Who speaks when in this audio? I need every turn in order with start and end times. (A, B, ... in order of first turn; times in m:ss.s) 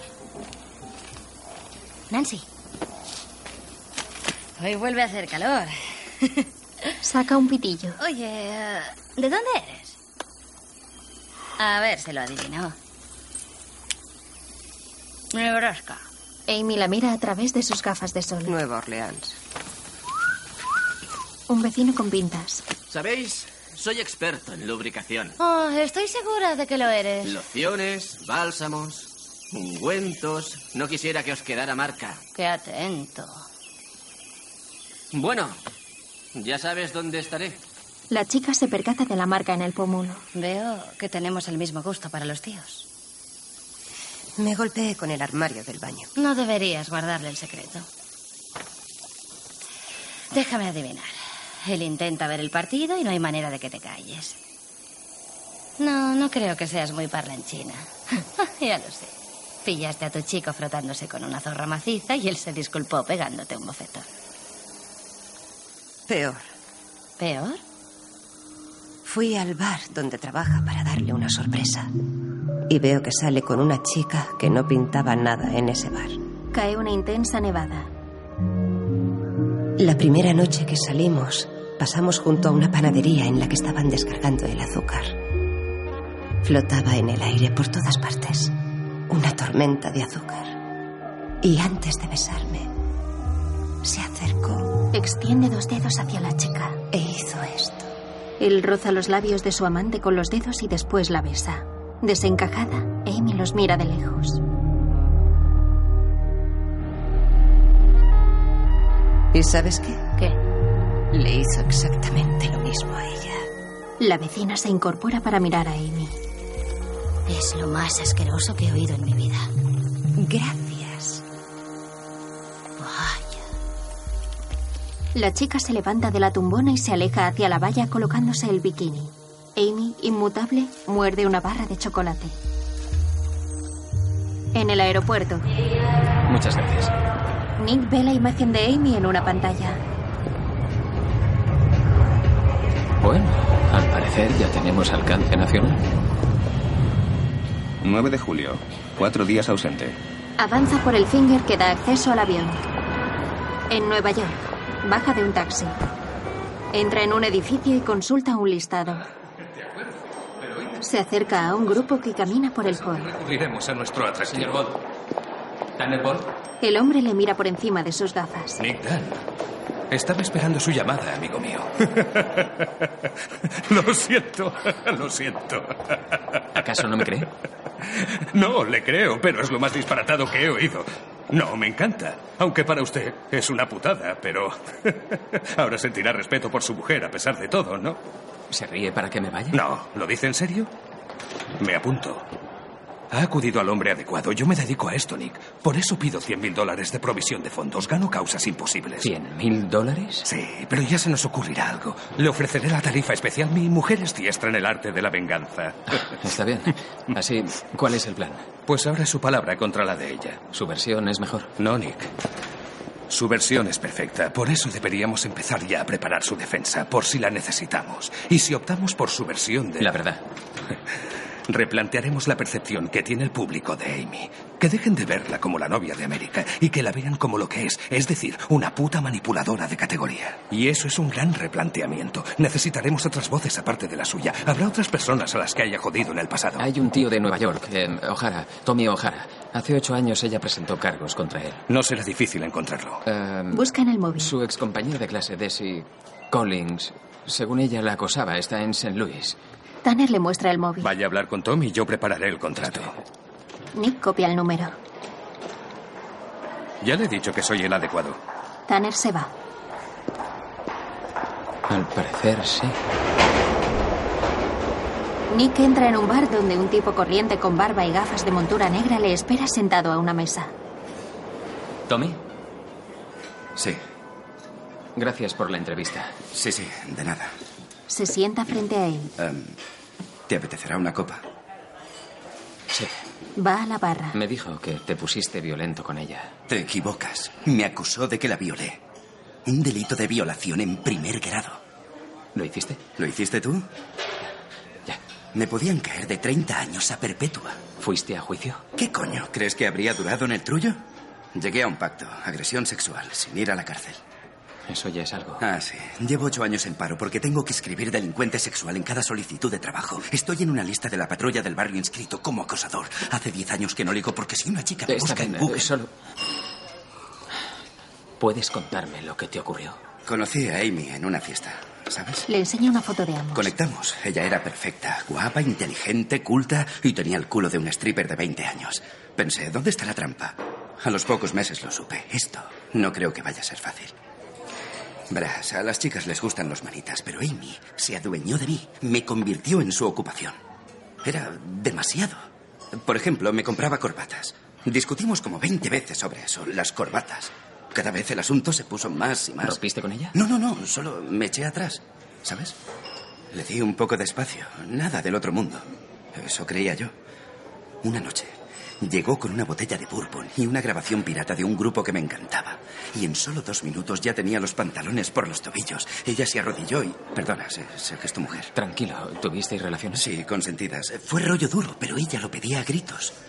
0:02.1-0:02.4 A
0:04.6-0:06.4 A
0:07.0-0:08.0 B
0:08.0-0:10.0 A
0:11.6-0:12.8 A
0:15.3-0:16.0 A
0:16.5-0:18.5 B
0:18.4-0:19.4 C
0:21.5-0:22.6 B
0:22.9-0:25.4 D
0:25.4-0:27.4 A
0:27.2-0:32.2 D
0:32.3-0:33.4 A
0:35.1-0:35.6 D
0:36.3-0:37.6 D
0:38.1-0:40.2 B
0:40.3-0:42.9 A
0:44.4-0:46.1 C
0:46.2-0:47.9 A
0:50.3-0:54.4 A
0:55.8-0:59.1 A
0:59.6-1:04.1 A
1:06.1-1:06.5 C
1:07.2-1:07.6 A
1:09.0-1:11.9 C
1:12.7-1:16.2 C
1:16.5-1:17.9 B
1:19.8-1:25.1 C
1:26.4-1:28.5 C
1:29.1-1:30.6 C
1:31.4-1:32.7 C
1:33.8-1:34.8 C
1:34.9-1:36.8 B
1:36.9-1:37.9 C
1:38.4-1:44.4 B
1:49.3-1:50.1 C
1:51.1-1:53.4 C
1:54.0-1:56.2 B
1:57.3-1:59.5 A
2:00.2-2:01.2 C
2:05.1-2:12.4 B
2:14.5-2:15.5 B
2:16.3-2:16.9 E
2:17.6-2:19.8 B
2:23.0-2:25.8 E
2:27.8-2:30.0 F
2:30.4-2:32.6 B
2:33.7-2:35.8 B
2:36.7-2:39.1 B
2:40.4-2:40.7 G
2:40.8-2:43.1 B
2:42.6-2:44.7 G
2:44.3-2:44.7 E
2:45.8-2:46.3 E
2:46.6-2:48.6 B
2:48.6-2:49.2 G
2:49.9-2:52.6 G
2:53.6-2:56.0 G
2:56.6-2:57.3 E
2:58.0-3:08.0 G
3:08.5-3:09.6 E
3:09.5-3:10.7 G
3:11.6-3:12.2 G
3:13.1-3:19.1 G
3:19.0-3:20.3 E
3:20.2-3:26.0 G
3:26.1-3:28.5 E
3:28.6-3:30.4 G
3:30.5-3:31.5 E
3:31.6-3:32.1 G
3:33.1-3:39.9 G
3:39.8-3:40.2 E
3:41.5-3:56.7 G
3:56.6-4:01.6 E
4:01.7-4:03.0 G
4:03.1-4:03.6 E
4:03.5-4:04.3 B
4:04.2-4:09.4 E
4:09.8-4:10.9 B
4:10.8-4:13.0 G
4:13.7-4:14.8 B
4:16.8-4:18.2 G
4:18.7-4:19.3 B
4:21.7-4:22.8 E
4:25.3-4:30.5 B
4:31.9-4:32.2 E
4:35.0-4:36.2 E
4:36.3-4:37.3 H
4:37.9-4:39.1 B
4:39.2-4:39.6 H
4:40.3-4:41.2 H
4:43.4-4:44.2 B
4:44.1-4:46.3 E
4:46.5-4:48.8 H
4:49.4-4:51.6 H
4:52.3-4:52.8 E
4:53.0-4:53.6 H
4:55.3-4:57.6 H
4:57.8-4:58.6 E
4:58.8-5:00.8 H
5:01.3-5:04.0 H
5:04.7-5:05.4 E
5:05.4-5:15.7 H
5:14.9-5:15.9 E
5:18.2-5:19.8 E
5:20.0-5:22.2 H
5:22.3-5:23.5 B
5:23.3-5:33.9 H
5:35.1-5:40.4 H
5:41.0-5:42.2 H
5:42.8-5:49.6 H
5:49.4-5:50.1 E
5:50.1-5:52.5 H
5:53.3-5:56.9 H
5:57.8-6:08.5 H
6:08.5-6:10.1 E
6:09.9-6:13.1 H